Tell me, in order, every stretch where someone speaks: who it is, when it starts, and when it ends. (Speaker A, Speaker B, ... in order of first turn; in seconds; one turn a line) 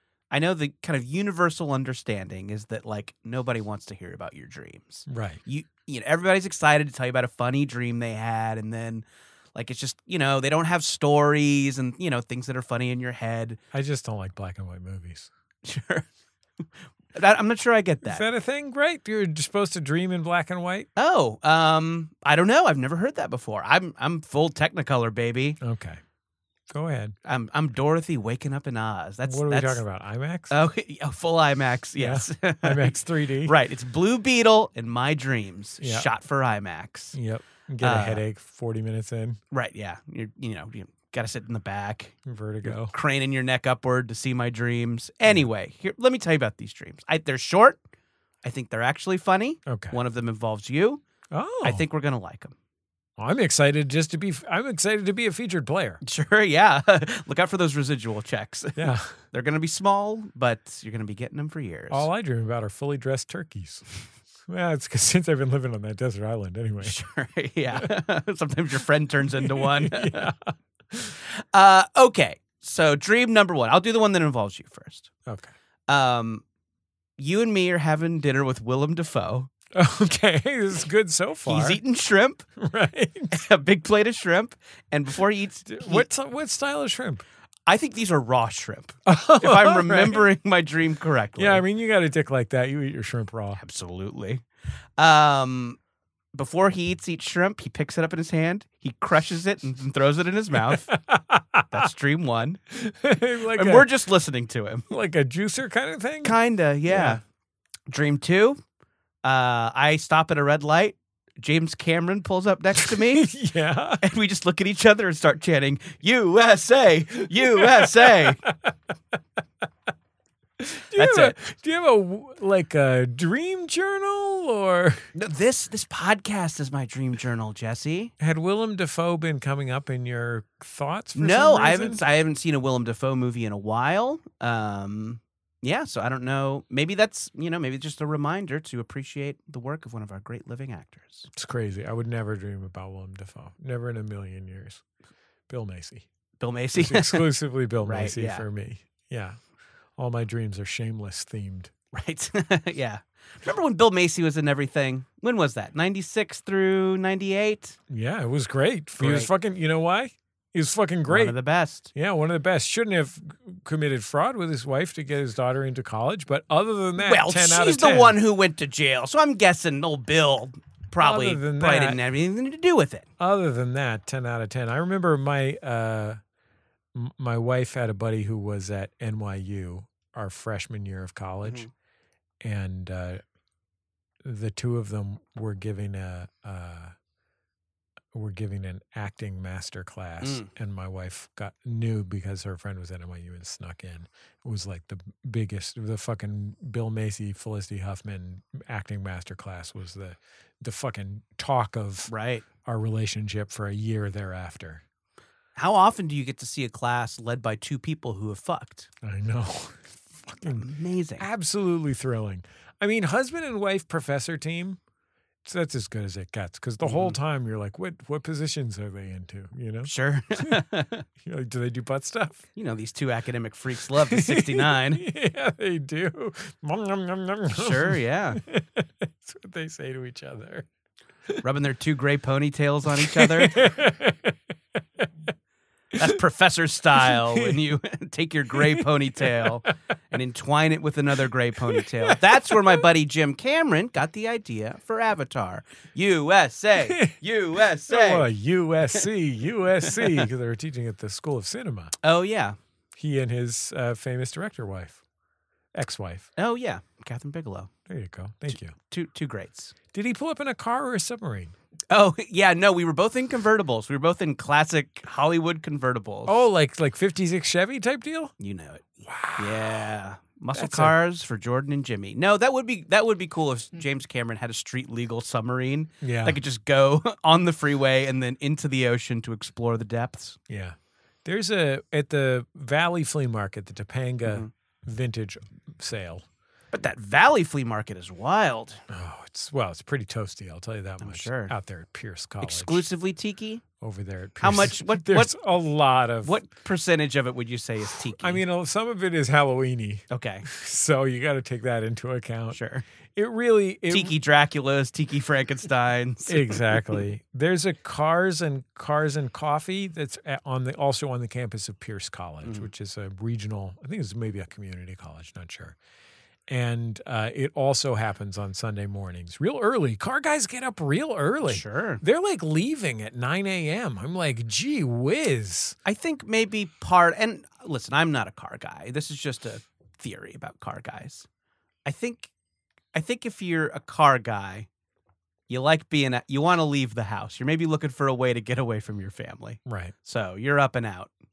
Speaker A: 0.3-13.6
Speaker B: 5.1-5.4
Speaker B: 13.7-15.3
Speaker A: 15.6-16.0
Speaker A: 17.1-18.2
Speaker B: 18.0-20.9
Speaker A: 21.0-25.6
Speaker B: 25.6-26.0
Speaker B: 26.7-27.1
Speaker A: 27.2-29.8
Speaker B: 29.2-30.5
Speaker A: 30.5-37.1
Speaker B: 32.0-33.5
Speaker B: 35.8-36.1
Speaker B: 37.1-39.4
Speaker A: 37.8-38.2
Speaker A: 39.5-47.8
Speaker B: 42.2-42.9
Speaker A: 48.4-51.0
Speaker B: 49.7-50.0
Speaker B: 51.3-51.8
Speaker A: 51.6-52.5
Speaker B: 53.2-56.0
Speaker A: 56.0-62.1
Speaker B: 58.8-59.1
Speaker B: 61.9-63.8
Speaker B: 64.5-67.0
Speaker A: 66.8-70.3
Speaker B: 69.4-71.1
Speaker A: 71.5-75.1
Speaker B: 75.2-75.5
Speaker A: 75.9-76.4
Speaker A: 77.2-79.5
Speaker B: 79.7-81.8
Speaker A: 81.5-82.4
Speaker B: 82.6-83.4
Speaker A: 83.3-86.0
Speaker B: 85.7-87.2
Speaker A: 87.7-91.6
Speaker B: 89.0-90.3
Speaker B: 91.4-93.6
Speaker A: 93.5-94.4
Speaker A: 95.0-95.8
Speaker A: 96.3-100.9
Speaker B: 100.6-101.9
Speaker A: 101.7-102.6
Speaker B: 102.7-103.9
Speaker A: 103.5-104.8
Speaker B: 104.9-106.3
Speaker A: 106.2-107.2
Speaker B: 106.8-107.2
Speaker A: 107.9-108.6
Speaker A: 109.2-113.3
Speaker B: 112.8-114.0
Speaker A: 114.0-118.4
Speaker B: 117.3-118.7
Speaker B: 120.6-125.0
Speaker A: 121.0-121.3
Speaker A: 125.1-128.1
Speaker B: 128.2-132.0
Speaker A: 131.1-141.3
Speaker B: 141.3-144.8
Speaker B: 145.5-146.1
Speaker A: 146.4-147.3
Speaker B: 146.8-149.4
Speaker A: 147.8-148.4
Speaker B: 150.0-151.7
Speaker A: 151.9-157.8
Speaker B: 157.9-161.3
Speaker A: 159.0-159.3
Speaker A: 161.1-161.9
Speaker B: 161.9-168.2
Speaker A: 167.0-173.1
Speaker B: 171.0-172.0
Speaker B: 173.2-176.2
Speaker B: 176.9-181.7
Speaker A: 181.4-181.7
Speaker B: 182.4-183.2
Speaker B: 184.2-186.9
Speaker B: 188.1-202.1
Speaker A: 190.2-190.5
Speaker A: 202.1-202.4
Speaker B: 202.6-204.8
Speaker A: 205.6-208.9
Speaker B: 209.0-210.7
Speaker A: 210.5-211.3
Speaker B: 211.2-214.8
Speaker B: 215.4-220.6
Speaker A: 216.8-217.2
Speaker A: 219.8-221.0
Speaker B: 221.2-222.4
Speaker A: 222.6-225.0
Speaker B: 224.1-230.7
Speaker A: 227.5-228.4
Speaker A: 231.4-233.6
Speaker B: 233.0-234.4
Speaker A: 235.9-248.3
Speaker B: 237.1-237.6
Speaker B: 238.5-239.6
Speaker B: 241.7-242.8
Speaker B: 246.8-247.2
Speaker B: 247.9-251.9
Speaker A: 249.8-250.2
Speaker A: 252.0-252.6
Speaker B: 253.0-255.0
Speaker B: 255.7-256.3
Speaker A: 256.4-257.7
Speaker B: 257.9-258.7
Speaker A: 258.5-259.7
Speaker B: 259.9-261.5
Speaker A: 261.9-266.4
Speaker B: 266.3-268.3
Speaker A: 268.4-280.4
Speaker B: 269.0-269.9
Speaker B: 270.5-270.9
Speaker B: 276.0-276.4
Speaker B: 280.5-286.2
Speaker A: 284.2-284.5
Speaker A: 286.7-288.8
Speaker B: 288.9-292.8
Speaker A: 291.0-291.5
Speaker A: 292.4-293.6
Speaker B: 293.8-296.4
Speaker A: 294.4-295.3
Speaker A: 296.2-298.4
Speaker B: 298.2-302.6
Speaker A: 300.1-300.5
Speaker A: 302.5-302.8
Speaker B: 303.1-304.1
Speaker A: 303.9-307.0
Speaker B: 306.3-315.8
Speaker B: 316.5-325.8
Speaker A: 321.4-322.0
Speaker A: 325.9-331.2
Speaker A: 331.9-332.3
Speaker A: 332.9-334.7
Speaker A: 335.5-341.1
Speaker B: 339.6-339.9